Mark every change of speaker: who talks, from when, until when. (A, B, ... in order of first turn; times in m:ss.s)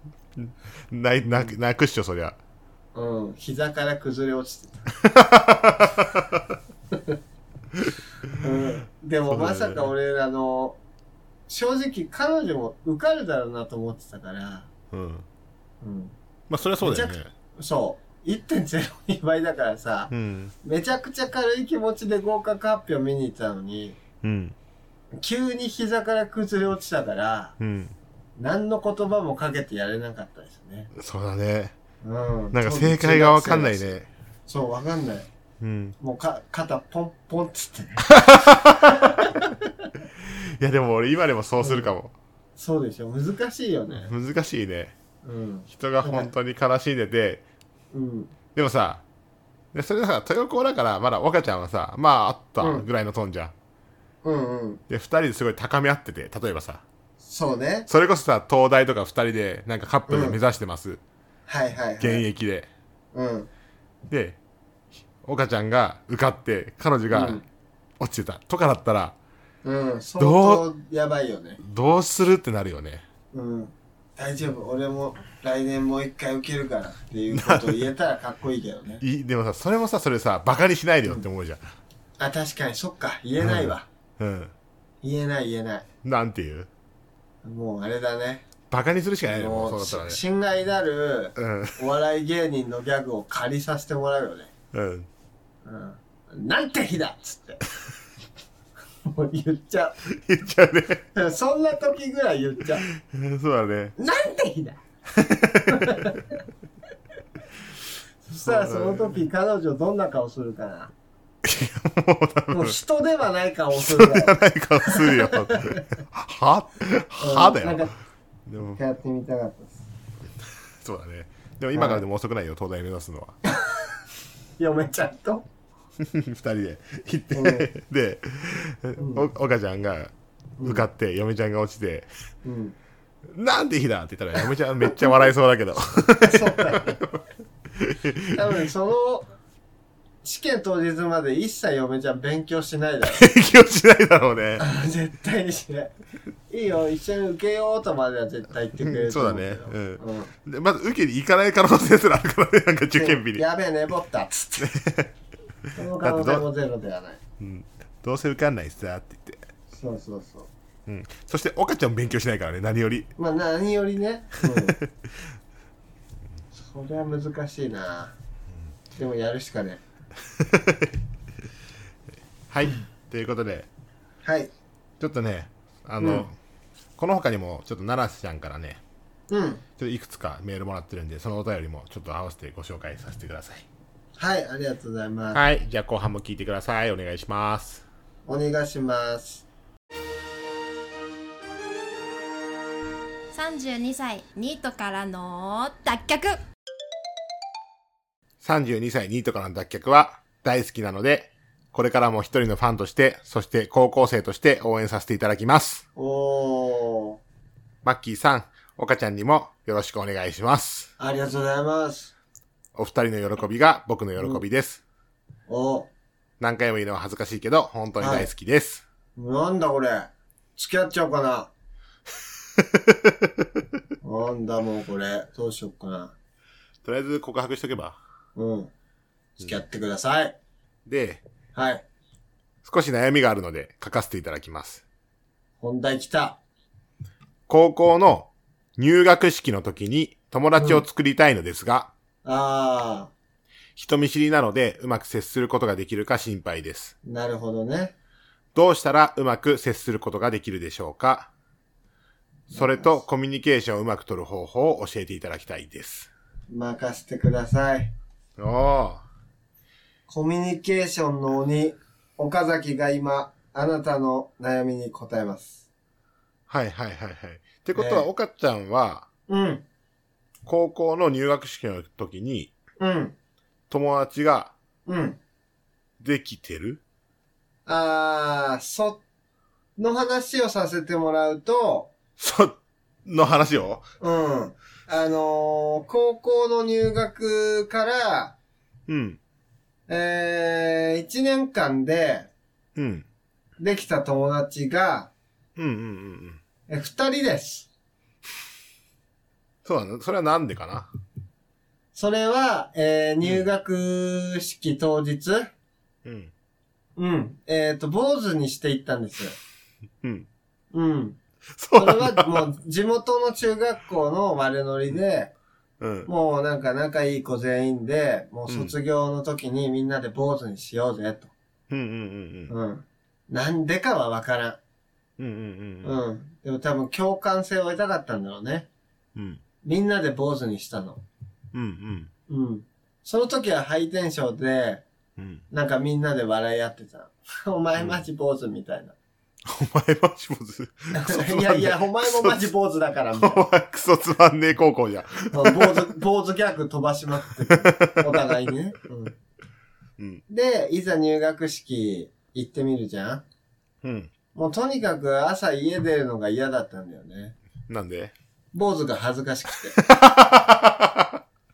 0:00.4-0:02.4 A
0:03.0-0:04.8 B
0:05.0-0:06.6 A
0:07.7-0:08.4 A
0:08.4-0:10.8 B
0:09.3-0:09.9 A
0:11.5-0:14.7 B
0:14.9-0:15.3 A
0:15.8-0:16.2 B
0:16.5-0:17.3 A
0:16.8-0:20.1 B
0:20.1-0:20.5 A
0:20.6-0:24.0 B
0:24.2-0:24.6 A
0:25.2-0:27.6 B
0:27.6-0:28.0 A
0:28.4-0:30.9 B
0:30.9-0:31.8 A
0:32.0-0:33.9 B
0:32.5-0:34.1 A
0:34.5-0:35.3 B
0:35.6-0:36.0 A
0:36.0-0:39.9 B
0:38.1-0:39.2 A
0:40.2-0:42.1 A
0:41.6-0:41.9 B
0:42.6-0:44.1 B
0:43.9-0:44.9 A
0:45.2-0:46.3 B
0:45.7-0:47.4 A
0:47.9-0:48.3 B
0:48.5-0:49.0 A
0:49.7-0:53.5 A
0:52.6-0:52.8 B
0:54.2-0:54.8 B
0:54.9-0:56.8 A
0:57.2-0:57.9 B
0:57.9-1:01.0 A
1:00.1-1:00.4 B
1:01.5-1:02.2 B
1:02.0-1:02.7 A
1:03.1-1:03.5 B
1:04.1-1:04.4 A
1:05.2-1:07.4 A
1:07.1-1:07.4 B
1:08.0-1:09.2 A
1:09.6-1:11.6 B
1:10.2-1:10.6 A
1:11.6-1:13.0 A
1:13.3-1:19.0 B
1:17.3-1:17.8 A
1:19.0-1:21.6 A
1:22.2-1:23.9 B
1:23.4-1:24.5 A
1:25.0-1:25.9 B
1:26.0-1:26.7 A
1:27.4-1:28.4 B
1:28.7-1:30.2 A
1:29.3-1:34.5 B
1:31.4-1:31.8 A
1:34.7-1:35.1 A
1:35.6-1:37.6 B
1:39.1-1:40.0 B
1:40.1-1:41.1 A
1:41.2-1:42.9 B
1:42.9-1:44.0 A
1:44.0-1:44.8 B
1:45.2-1:46.1 A
1:45.7-1:46.2 B
1:48.3-1:50.9 B
1:48.3-1:49.2 A
1:51.4-1:52.8 A
1:52.5-1:55.8 B
1:53.7-1:57.9 A
1:57.2-1:57.9 B
1:58.5-1:58.8 A
1:58.8-1:59.8 B
2:00.8-2:03.4 A
2:01.7-2:02.0 B
2:04.6-2:05.5 B
2:06.0-2:12.1 A
2:07.3-2:07.7 B
2:09.0-2:09.3 B
2:10.6-2:10.9 B
2:12.4-2:12.8 B
2:13.3-2:17.2 A
2:16.2-2:17.0 B
2:17.7-2:18.4 A
2:18.3-2:19.3 B
2:20.2-2:23.3 B
2:23.1-2:24.6 A
2:24.6-2:25.9 B
2:26.5-2:30.3 B
2:28.8-2:33.4 A
2:32.9-2:34.7 B
2:34.6-2:35.1 A
2:35.8-2:37.2 B
2:36.0-2:36.4 A
2:37.4-2:39.4 A
2:39.7-2:40.5 B
2:40.9-2:43.1 A
2:43.2-2:44.8 B
2:44.4-2:44.9 A
2:46.6-2:48.2 B
2:49.0-2:49.8 B
2:50.3-2:50.9 A
2:52.5-2:53.7 A
2:54.2-2:54.5 B
2:55.0-2:56.4 A
2:56.0-2:56.3 B
2:57.0-2:58.8 A
2:59.3-2:59.6 B
2:59.8-3:03.7 A
3:04.2-3:05.4 B
3:05.3-3:07.8 A
3:08.3-3:09.4 B
3:13.3-3:16.4 C
3:18.4-3:25.8 A
3:26.0-3:27.2 B
3:27.8-3:30.9 A
3:31.0-3:32.1 B
3:32.8-3:34.8 A
3:34.2-3:34.4 B
3:35.5-3:35.9 B
3:36.4-3:38.8 A
3:38.0-3:38.3 B
3:39.2-3:41.5 B
3:42.6-3:43.4 A
3:44.0-3:46.2 B
3:46.8-3:48.0 A
3:48.4-3:48.7 B
3:49.4-3:50.4 B
3:50.9-3:51.2 A
3:51.5-3:51.8 B
3:52.6-3:54.8 A
3:55.6-3:56.4 B
3:57.5-4:01.9 A
4:00.6-4:00.8 B
4:02.2-4:03.1 B
4:03.8-4:06.9 A
4:07.0-4:08.0 B
4:08.6-4:11.3 A
4:12.5-4:13.0 B
4:12.5-4:16.1 A
4:16.5-4:17.9 B
4:18.4-4:19.0 A
4:20.1-4:25.6 B
4:26.5-4:29.1 A
4:27.8-4:28.1 B
4:29.3-4:29.6 B
4:30.4-4:32.5 A
4:32.8-4:33.2 B
4:33.7-4:34.5 A
4:34.9-4:35.2 B
4:36.0-4:36.8 A
4:37.7-4:39.0 B
4:39.8-4:41.9 B
4:42.2-4:43.8 A
4:44.0-4:48.4 B
4:48.9-4:49.2 A
4:49.9-4:52.3 B
4:52.8-4:53.1 A
4:53.6-4:55.1 B
4:55.6-4:56.4 A
4:56.7-4:57.7 B
4:59.6-5:00.9 A
5:01.9-5:05.5 B
5:06.0-5:06.3 A
5:07.0-5:09.4 B
5:10.0-5:10.3 A
5:10.7-5:11.2 B
5:11.6-5:12.5 A
5:11.8-5:15.3 B
5:15.8-5:16.1 A
5:16.1-5:21.3 B
5:18.5-5:18.7 A
5:21.7-5:22.5 A
5:22.5-5:24.6 B
5:25.2-5:26.0 A
5:25.8-5:28.7 B
5:29.2-5:29.4 A
5:29.6-5:31.0 B
5:31.5-5:32.1 A
5:32.3-5:34.8 B
5:35.2-5:35.4 A
5:35.5-5:39.0 B
5:37.8-5:38.0 A
5:39.5-5:42.5 A
5:40.9-5:43.4 B
5:43.2-5:45.9 A
5:45.3-5:49.2 B
5:47.4-5:48.5 A
5:50.0-5:50.2 A
5:50.3-5:53.2 B
5:53.8-5:54.1 A
5:54.4-5:57.4 B
5:57.7-5:58.1 A
5:58.5-5:59.8 B
5:59.8-6:01.2 A